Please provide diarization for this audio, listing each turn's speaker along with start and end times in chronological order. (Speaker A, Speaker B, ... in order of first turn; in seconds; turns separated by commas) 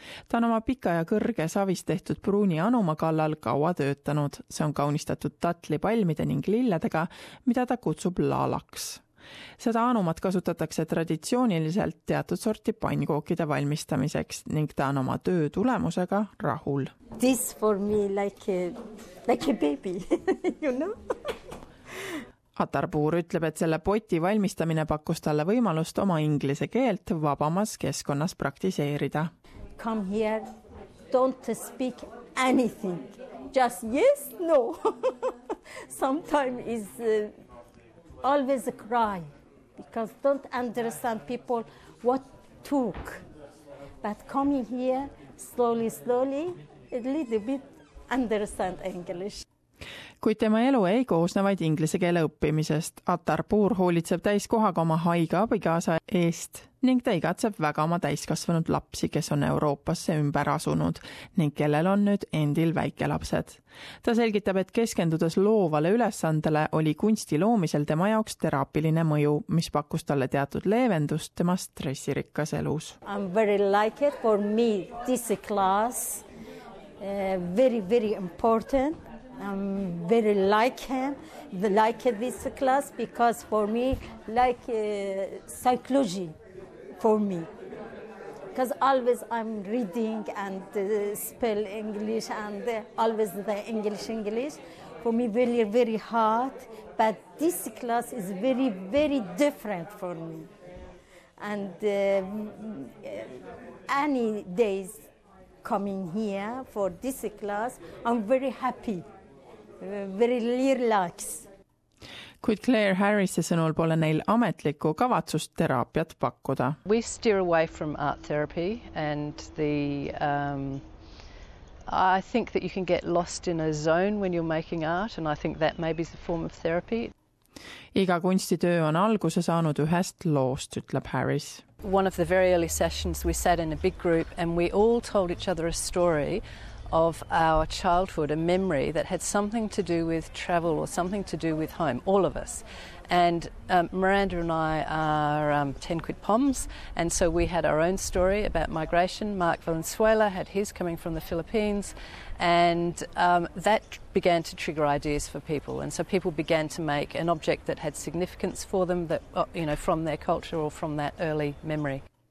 Speaker A: 0.3-9.0, Speaker A: 9.6-16.9, Speaker B: 17.2-20.9, Speaker A: 22.6-29.3, Speaker B: 29.8-30.4, Speaker B: 31.1-35.3, Speaker B: 35.9-37.3, Speaker B: 38.2-43.2, Speaker B: 44.0-49.4, Speaker A: 50.2-73.0, Speaker B: 73.0-76.2, Speaker B: 77.0-86.3, Speaker B: 87.0-87.5, Speaker B: 88.5-100.5, Speaker B: 101.4-105.0, Speaker B: 105.6-109.0, Speaker B: 109.8-111.5, Speaker A: 112.4-116.8, Speaker C: 116.8-120.9, Speaker C: 121.9-127.1, Speaker A: 127.9-131.6, Speaker C: 131.8-162.0